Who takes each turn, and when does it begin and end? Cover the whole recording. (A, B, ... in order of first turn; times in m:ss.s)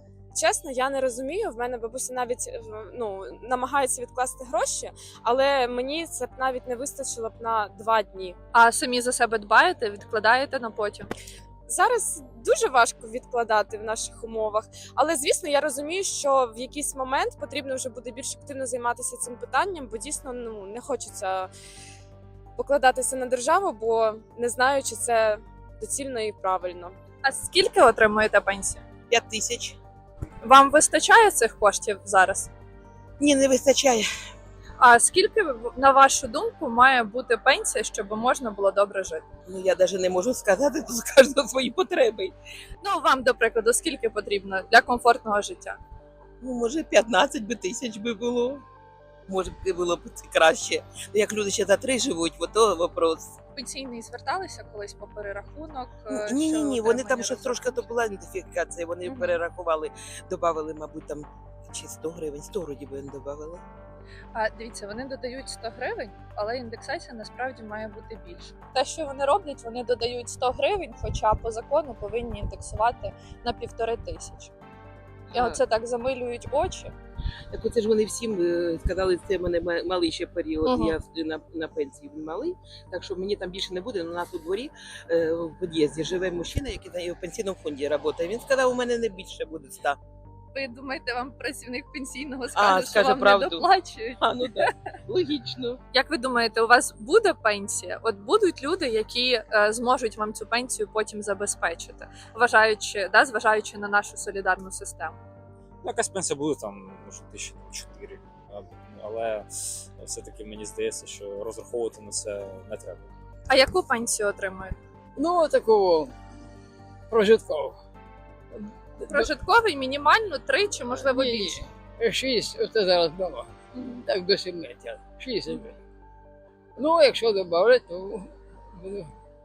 0:00.3-0:08.4 A
0:08.5-0:11.1 B
0:11.7-0:21.5 A
0:22.6-0:27.0 A
0:27.2-0:28.8 B
0:29.1-0:29.8 C
0:30.4-0:32.5 B
0:33.2-0:34.1 C
0:34.8-0:39.2 B
0:39.5-0:42.3 C
0:42.8-0:45.8 B
0:46.4-0:48.6 C
0:49.3-0:53.4 C
0:53.5-0:57.9 B
0:56.1-1:03.6 C
0:59.0-0:59.4 B
1:04.3-1:14.5 B
1:15.3-1:15.6 C
1:15.3-1:16.9 B
1:17.5-1:30.0 C
1:20.6-1:21.0 B
1:30.5-1:34.7 B
1:32.5-1:35.8 C
1:35.9-1:45.2 B
1:45.8-1:53.1 D
1:53.5-1:54.8 B
1:55.2-1:56.1 E
1:57.1-1:57.8 E
1:58.6-1:59.3 E
1:59.1-2:01.6 B
2:00.9-2:03.5 E
2:03.7-2:04.0 B
2:04.0-2:05.7 E
2:06.8-2:09.1 E